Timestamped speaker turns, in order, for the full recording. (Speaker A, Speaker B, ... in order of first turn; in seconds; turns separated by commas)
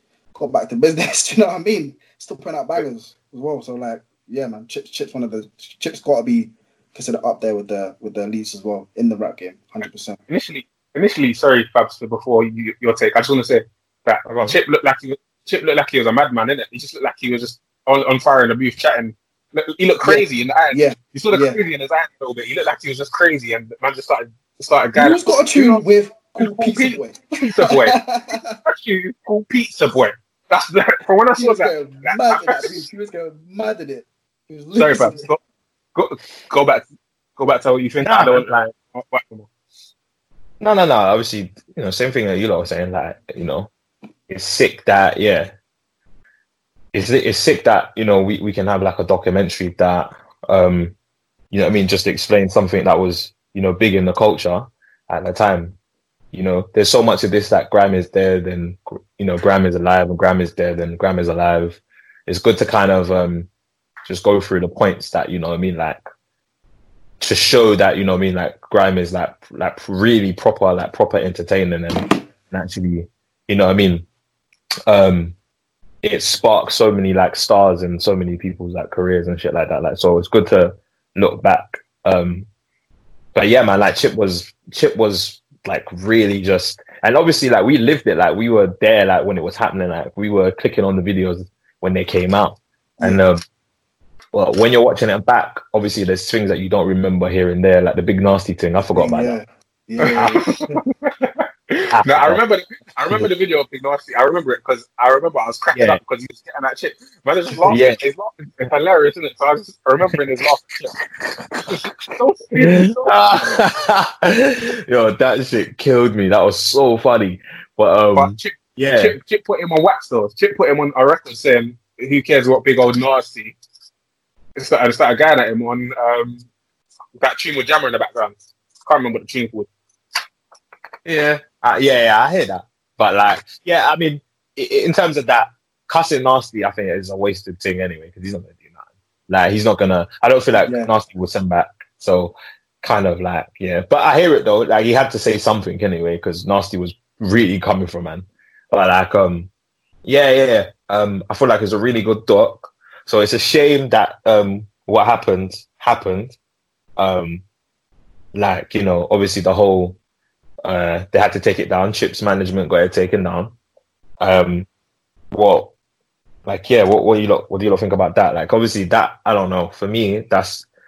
Speaker A: 0.3-10.2, Speaker B: 10.3-25.8, Speaker A: 20.0-21.6, Speaker A: 24.9-28.6, Speaker B: 26.4-28.0, Speaker B: 28.6-32.8, Speaker A: 31.4-35.3, Speaker B: 34.8-35.4, Speaker B: 35.9-36.8, Speaker B: 37.4-39.5, Speaker C: 38.0-38.5, Speaker C: 40.6-43.7, Speaker C: 44.3-45.5, Speaker C: 46.9-50.9, Speaker C: 51.5-55.8, Speaker C: 56.3-63.5, Speaker C: 64.0-66.0, Speaker C: 67.2-74.0, Speaker C: 74.9-75.3, Speaker C: 76.0-82.5, Speaker C: 83.3-93.4, Speaker C: 94.3-99.4, Speaker A: 99.0-100.8, Speaker B: 100.0-110.7, Speaker C: 101.9-102.4, Speaker C: 105.7-106.0, Speaker C: 107.7-108.0, Speaker C: 110.8-111.7, Speaker B: 111.7-113.6, Speaker C: 112.6-119.2, Speaker B: 118.1-123.5, Speaker B: 124.5-126.5, Speaker B: 127.2-128.3, Speaker B: 128.8-129.7, Speaker C: 131.0-138.8, Speaker C: 139.3-149.5, Speaker A: 140.6-140.9, Speaker C: 150.0-156.4, Speaker C: 157.0-157.4, Speaker C: 158.3-160.0, Speaker C: 160.6-163.5, Speaker C: 164.2-164.7, Speaker C: 165.3-165.7, Speaker C: 166.4-170.7